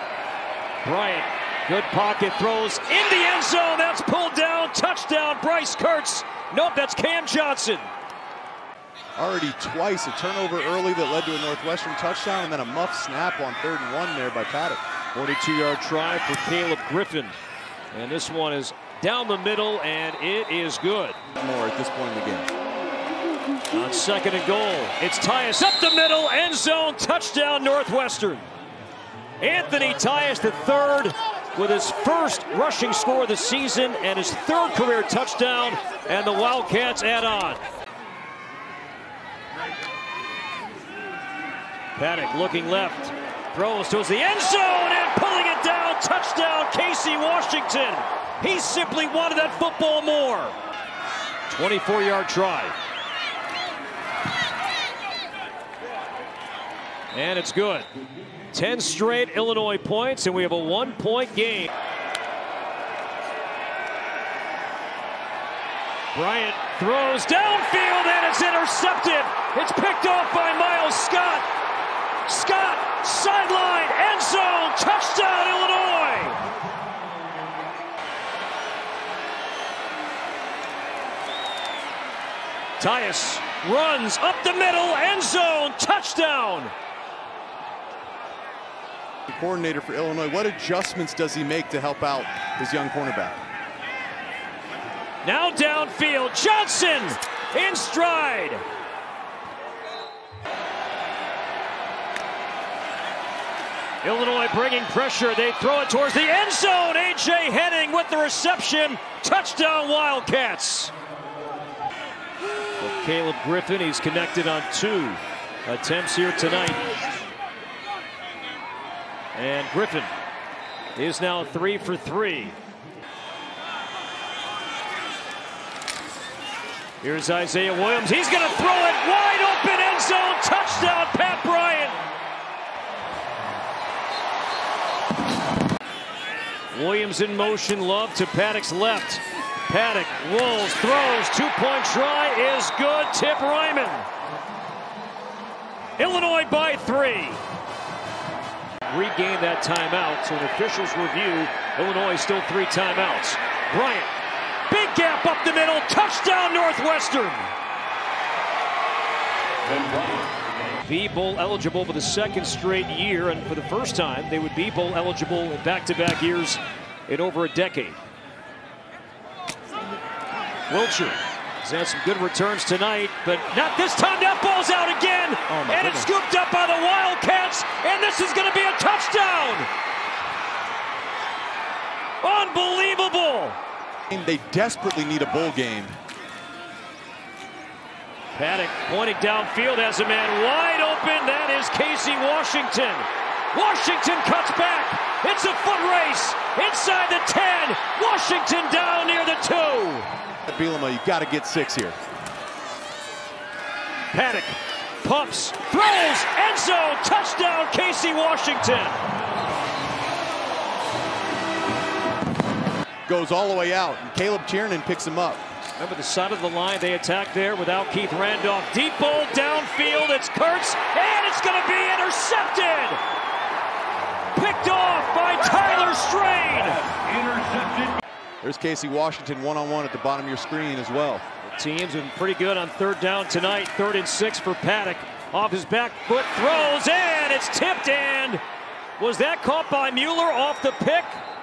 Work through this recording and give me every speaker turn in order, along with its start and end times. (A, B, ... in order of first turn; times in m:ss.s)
0:00.8-0:07.9 A
0:09.2-0:14.8 B
0:15.1-0:17.4 A
0:17.9-0:21.2 A
0:21.4-0:22.5 B
0:23.7-0:28.5 A
0:29.4-0:37.6 A
0:42.0-0:50.6 A
0:51.5-0:52.8 A
0:57.1-0:57.9 A
0:58.5-1:01.7 A
1:06.1-1:11.5 A
1:12.3-1:16.4 A
1:22.8-1:26.7 A
1:29.3-1:33.4 B
1:35.2-1:38.6 A
1:44.0-1:50.9 A
1:52.8-1:56.8 A
1:59.3-2:00.1 A
2:01.0-2:02.6 A
2:07.0-2:12.0 A
2:16.7-2:24.1 A
2:26.0-2:27.4 A
2:28.9-2:34.1 A
2:34.7-2:37.5 A
2:39.8-2:40.1 A
2:40.8-2:48.0 A
2:50.7-2:59.7 A
2:55.5-2:56.1 B
3:02.2-3:03.6 A
3:04.1-3:05.9 B
3:08.3-3:20.1 A
3:20.4-3:22.0 B
3:24.1-3:29.0 A
3:33.1-3:35.4 B
3:35.8-3:43.0 A
3:44.3-3:47.6 A
3:48.4-3:51.2 B
3:51.4-3:58.4 A
3:59.0-4:01.2 A